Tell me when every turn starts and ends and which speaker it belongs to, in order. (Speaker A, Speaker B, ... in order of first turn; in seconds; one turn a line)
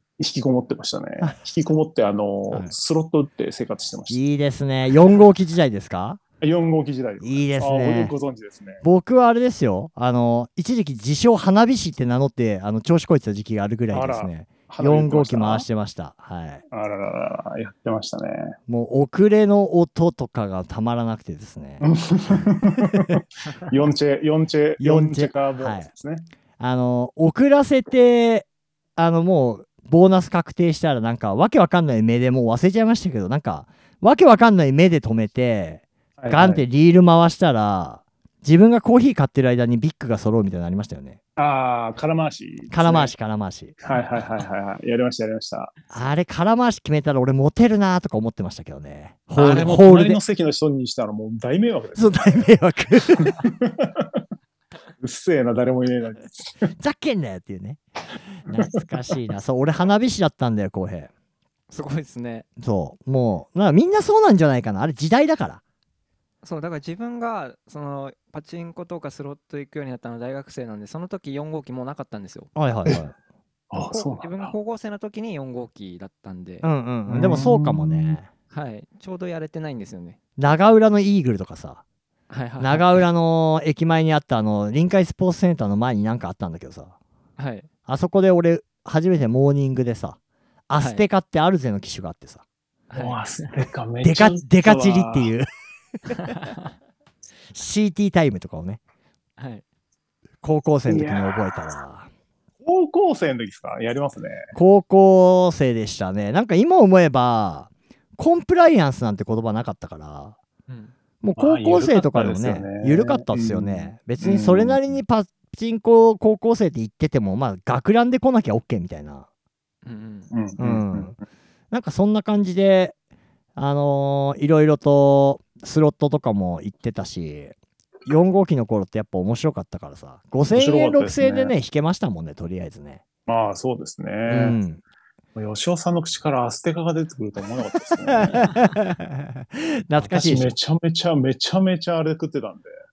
Speaker A: 0.2-4.2
Speaker B: 4.1-6.2
Speaker A: 6.4-8.8
Speaker B: 7.2-8.1
Speaker B: 8.8-16.6
Speaker A: 13.9-15.7
Speaker A: 16.7-18.6
Speaker B: 18.7-22.3
Speaker A: 21.8-26.3
Speaker B: 24.8-25.9
Speaker B: 26.6-41.2
Speaker A: 36.2-36.6
Speaker A: 41.4-43.1
Speaker B: 42.7-43.8
Speaker A: 43.8-45.7
Speaker B: 45.9-50.2
Speaker A: 49.4-52.4
Speaker B: 52.0-53.4
Speaker A: 53.1-54.2
Speaker A: 55.0-56.7
Speaker B: 56.8-57.8
Speaker B: 58.4-61.1
Speaker A: 58.5-58.8
Speaker C: 61.7-62.5
Speaker B: 62.6-65.6
Speaker C: 66.4-72.5
Speaker B: 72.5-73.1
Speaker A: 73.7-74.5
Speaker C: 73.8-76.7
Speaker B: 76.6-78.3
Speaker A: 77.1-78.2
Speaker C: 78.5-80.2
Speaker B: 80.4-81.8
Speaker C: 82.3-83.0
Speaker B: 82.6-86.9
Speaker C: 87.4-87.7
Speaker B: 87.9-90.2
Speaker B: 90.7-92.4
Speaker C: 92.9-93.5
Speaker A: 92.9-95.3
Speaker B: 94.0-95.5
Speaker B: 96.0-96.3
Speaker C: 96.2-96.6
Speaker B: 97.5-98.8
Speaker C: 99.4-99.6
Speaker B: 100.4-102.1
Speaker A: 100.9-101.4
Speaker A: 102.6-104.5
Speaker B: 104.5-110.4
Speaker C: 110.7-110.9
Speaker B: 111.2-119.3
Speaker A: 111.4-115.0
Speaker C: 119.8-120.3
Speaker A: 120.3-121.2
Speaker B: 120.6-121.1
Speaker B: 121.7-123.0
Speaker B: 123.5-127.5
Speaker B: 128.1-133.0
Speaker A: 130.5-131.5
Speaker A: 133.3-134.6
Speaker B: 134.3-134.8
Speaker A: 135.3-138.5
Speaker B: 138.1-140.5
Speaker A: 140.0-142.7